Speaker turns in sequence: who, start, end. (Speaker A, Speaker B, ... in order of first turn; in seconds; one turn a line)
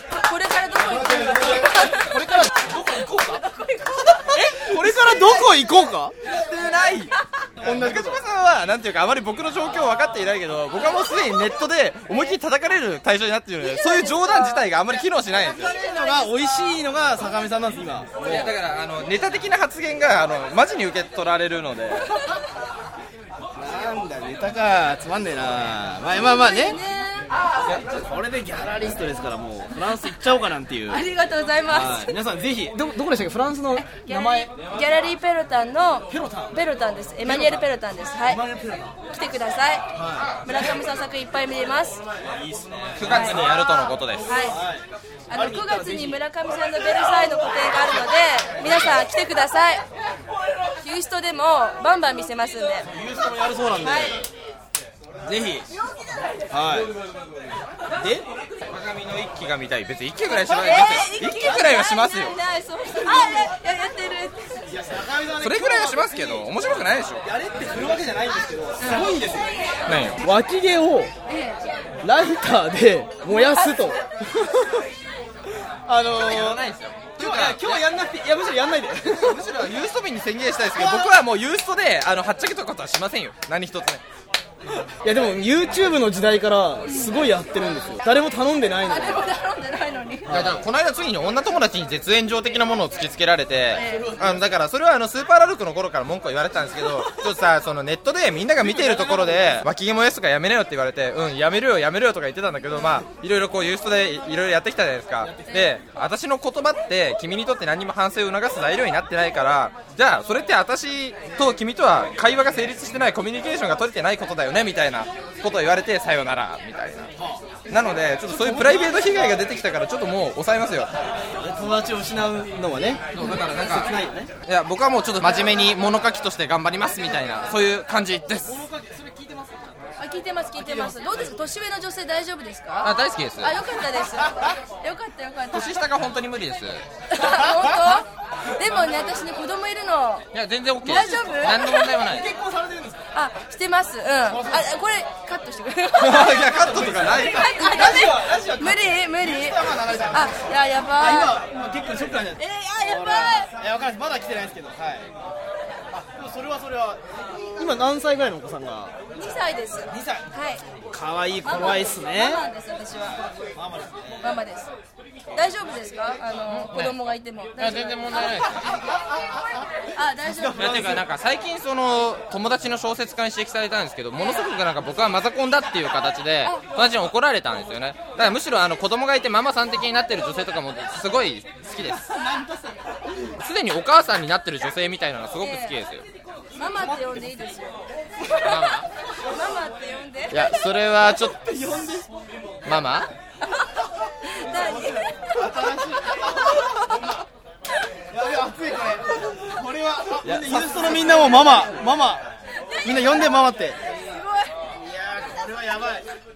Speaker A: 0.1-4.7
Speaker B: 0.9-3.4
Speaker B: 4.3-6.1
Speaker C: 6.2-15.8
Speaker B: 7.6-8.2
Speaker A: 13.8-14.6
Speaker B: 15.5-18.5
Speaker A: 15.7-16.3
Speaker C: 18.2-22.1
Speaker B: 23.6-26.8
Speaker A: 26.1-27.3
Speaker B: 27.7-31.0
Speaker A: 30.9-32.1
Speaker B: 31.7-34.5
Speaker A: 33.8-38.4
Speaker B: 36.1-36.5
Speaker B: 37.2-37.6
Speaker B: 38.3-39.0
Speaker A: 39.1-39.9
Speaker B: 39.9-40.4
Speaker A: 40.4-42.0
Speaker B: 42.2-43.5
Speaker C: 43.0-44.3
Speaker A: 43.0-43.5
Speaker A: 44.2-44.6
Speaker B: 44.3-46.2
Speaker A: 45.3-49.8
Speaker A: 50.8-52.9
Speaker B: 52.9-54.2
Speaker A: 53.8-54.2
Speaker B: 55.2-55.7
Speaker B: 56.5-56.9
Speaker B: 58.0-58.3
Speaker C: 58.7-62.4
Speaker A: 60.4-64.6
Speaker B: 63.1-63.4
Speaker B: 64.7-66.6
Speaker C: 65.4-67.2
Speaker B: 67.2-69.5
Speaker A: 68.8-69.1
Speaker C: 69.8-70.2
Speaker B: 70.2-71.1
Speaker A: 71.3-71.6
Speaker B: 72.0-74.8
Speaker A: 73.3-73.7
Speaker B: 75.8-76.7
Speaker C: 76.2-77.8
Speaker B: 77.2-79.4
Speaker C: 79.2-84.0
Speaker B: 84.8-89.3
Speaker A: 86.9-87.3
Speaker A: 88.8-90.3
Speaker B: 90.2-90.6
Speaker C: 90.3-117.1
Speaker A: 93.7-94.1
Speaker B: 93.8-94.4
Speaker B: 98.6-99.5
Speaker C: 117.7-120.9
Speaker B: 118.3-119.4
Speaker B: 121.3-124.3
Speaker C: 123.1-123.9
Speaker C: 124.5-128.6
Speaker B: 128.4-129.7
Speaker A: 130.0-135.7
Speaker B: 130.6-131.0
Speaker C: 132.8-133.6
Speaker C: 135.5-136.8
Speaker A: 137.1-140.3
Speaker B: 137.4-137.7
Speaker B: 138.8-139.1
Speaker C: 140.3-142.3
Speaker A: 140.8-142.0
Speaker B: 141.4-143.0
Speaker A: 143.1-146.5
Speaker B: 144.3-144.7
Speaker C: 146.0-147.5
Speaker B: 146.3-155.1
Speaker A: 147.2-151.4
Speaker A: 152.4-153.5
Speaker B: 155.9-157.0
Speaker B: 157.6-158.9
Speaker A: 159.2-160.6
Speaker B: 159.9-160.3
Speaker B: 160.9-162.4
Speaker A: 161.4-163.2
Speaker B: 163.5-164.3
Speaker A: 164.2-164.7
Speaker A: 165.3-168.6
Speaker C: 166.5-166.9
Speaker C: 167.6-168.7
Speaker A: 169.9-170.7
Speaker B: 170.3-171.0
Speaker C: 170.5-182.2
Speaker A: 174.2-174.5
Speaker B: 181.9-182.8
Speaker C: 183.4-186.1
Speaker A: 185.4-185.8
Speaker A: 186.6-187.8
Speaker B: 186.8-187.2
Speaker C: 188.4-188.9
Speaker A: 189.2-190.4
Speaker C: 190.3-191.4
Speaker B: 191.2-192.1
Speaker C: 192.6-193.1
Speaker A: 194.2-195.7
Speaker B: 194.5-197.0
Speaker B: 198.1-202.2
Speaker C: 200.2-201.3
Speaker B: 202.8-203.8
Speaker A: 203.9-204.5
Speaker B: 204.7-206.1